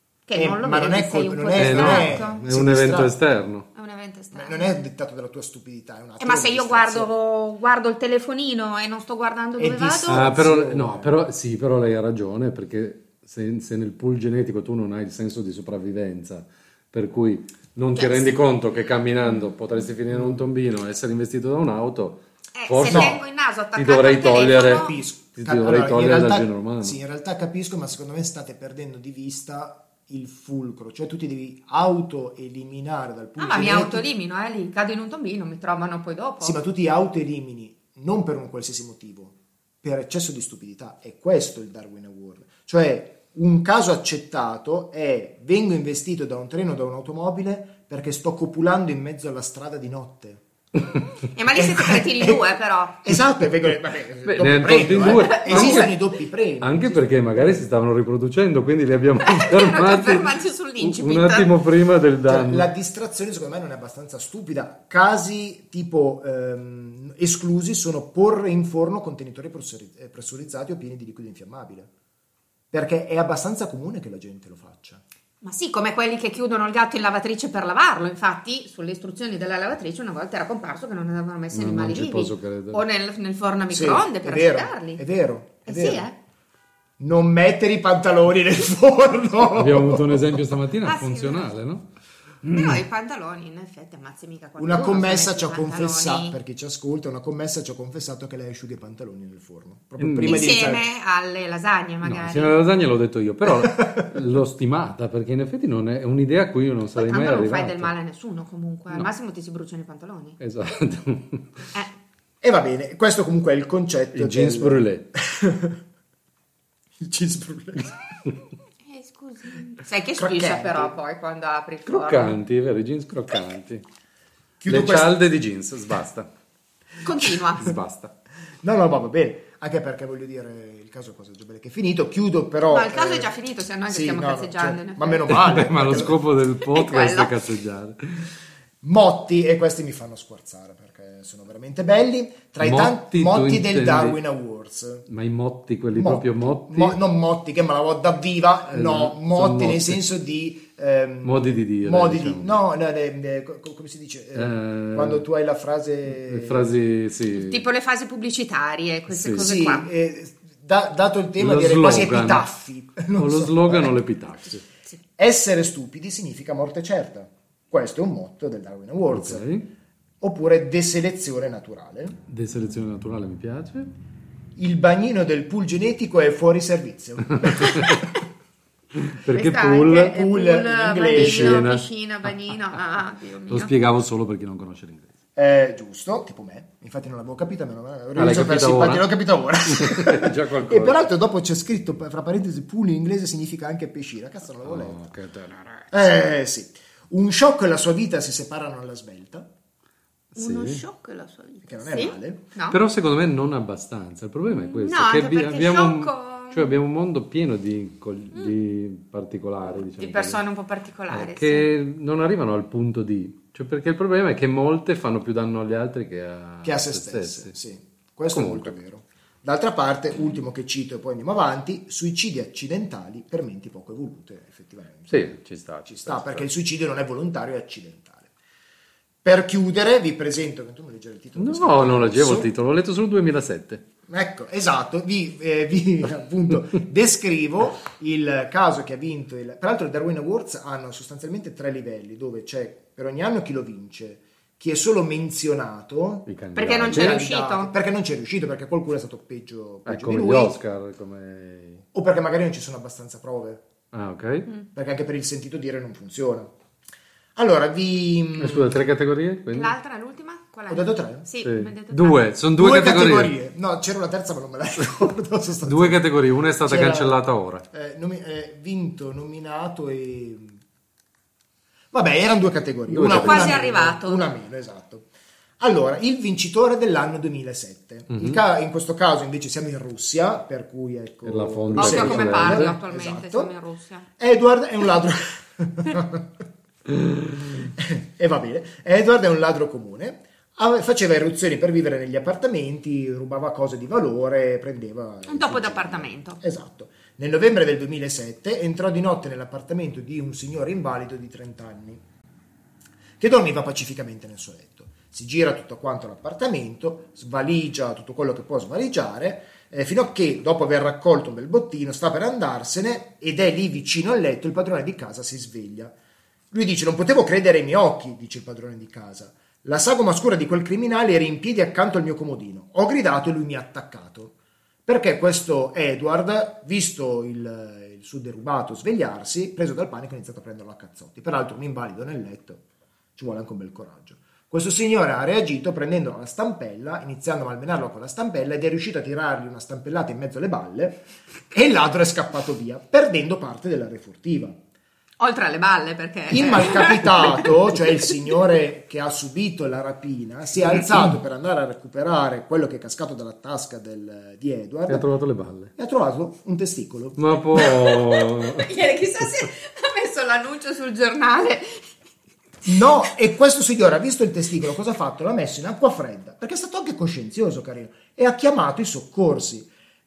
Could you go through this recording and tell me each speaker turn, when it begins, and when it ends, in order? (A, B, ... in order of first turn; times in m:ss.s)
0:00.3-0:02.4 A
0:00.3-0:03.1 B
0:01.6-0:03.7 C
0:03.7-0:04.7 A
0:04.3-0:07.1 B
0:06.2-0:10.3 A
0:09.6-0:11.2 B
0:10.1-0:23.2 C
0:18.0-0:18.4 A
0:20.2-0:20.4 B
0:22.6-0:25.0 A
0:22.8-0:23.2 B
0:23.7-0:27.0 C
0:24.6-0:34.0 B
0:33.4-0:36.6 A
0:36.4-0:50.4 B
0:51.3-0:53.0 A
0:51.6-0:52.4 B
0:53.0-0:57.6 B
0:54.2-0:55.9 C
0:55.1-0:55.9 A
0:56.6-1:02.7 C
0:59.2-1:01.5 A
1:02.2-1:11.9 B
1:12.7-1:15.0 B
1:15.4-1:25.0 A
1:21.5-1:22.8 C
1:23.7-1:26.1 B
1:25.7-1:26.2 A
1:27.0-1:30.4 B
1:29.6-1:31.9 C
1:30.8-1:31.5 A
1:32.4-1:32.8 C
1:32.5-1:36.4 A
1:34.6-1:40.8 B
1:40.0-1:40.6 C
1:40.2-1:42.6 A
1:42.0-1:47.9 C
1:43.5-1:44.0 B
1:47.0-1:50.4 A
1:50.4-1:51.7 C
1:52.4-1:55.8 B
1:54.1-1:55.1 C
1:57.0-1:58.0 B
1:58.8-2:02.4 A
2:00.2-2:01.0 B
2:01.9-2:03.8 C
2:04.6-2:05.2 B
2:04.7-2:06.3 C
2:07.0-2:07.8 A
2:07.6-2:08.1 C
2:08.6-2:13.3 B
2:12.7-2:17.4 A
2:13.9-2:16.2 B
2:15.3-2:18.3 C
2:18.8-2:25.1 B
2:22.6-2:24.2 C
2:25.1-2:27.0 C
2:25.9-2:36.7 B
2:28.7-2:30.0 C
2:31.2-2:32.6 C
2:34.4-2:35.2 C
2:36.2-2:37.6 C
2:37.3-2:39.9 A
2:39.1-2:39.5 C
2:39.4-2:44.0 B
2:41.4-2:42.5 C
2:43.1-2:44.6 C
2:45.2-2:49.5 B
2:49.1-2:49.7 C
2:50.2-2:52.2 B
2:52.3-2:53.9 C
2:54.6-2:58.0 B
2:57.4-2:58.0 C
2:59.0-3:00.1 C
2:59.3-3:03.7 A
2:59.9-3:01.7 B
3:01.1-3:02.3 C
3:03.5-3:05.1 C
3:05.4-3:15.1 B
3:08.2-3:09.1 C
3:09.7-3:11.1 C
3:14.6-3:15.9 C
3:15.9-3:19.5 B
3:20.4-3:20.8 C
3:20.4-3:22.8 A
3:21.6-3:22.4 B
3:22.7-3:30.4 C
3:24.5-3:26.8 A
3:30.0-3:31.7 A
3:31.1-3:37.5 C
3:36.6-3:45.3 B
3:38.3-3:38.8 C
3:45.1-3:46.5 C
3:45.9-3:48.3 B
3:49.2-3:52.5 B
3:51.4-3:53.8 C
3:54.1-4:10.6 B
4:06.3-4:07.2 C
4:06.6-4:07.7 A
4:09.9-4:11.8 C
4:11.9-4:13.6 B
4:13.9-4:14.5 C
4:14.7-4:16.5 B
4:17.4-4:18.8 B
4:18.4-4:19.7 C
4:19.5-4:22.4 A
4:20.7-4:21.3 B
4:21.4-4:23.4 C
4:22.5-4:26.1 B
4:25.6-4:27.6 C
4:26.6-4:27.2 B
4:27.7-4:30.6 B
4:31.9-4:35.1 B
4:32.9-4:33.7 C
4:33.0-4:34.2 A
4:35.6-4:43.5 B
4:38.1-4:38.4 C
4:41.2-4:42.8 C
4:41.8-4:44.1 A
4:44.2-4:46.3 B
4:47.8-5:02.0 B
4:55.3-4:56.4 A
5:03.2-5:16.0 B
5:16.5-5:24.3 B
5:24.9-5:32.6 B
5:33.2-5:44.6 B
5:45.2-5:47.5 A
5:46.3-5:55.0 B
5:54.9-5:55.7 C
5:55.8-5:57.3 B
5:57.2-5:58.7 C
5:57.9-6:01.9 A
6:02.6-6:09.7 B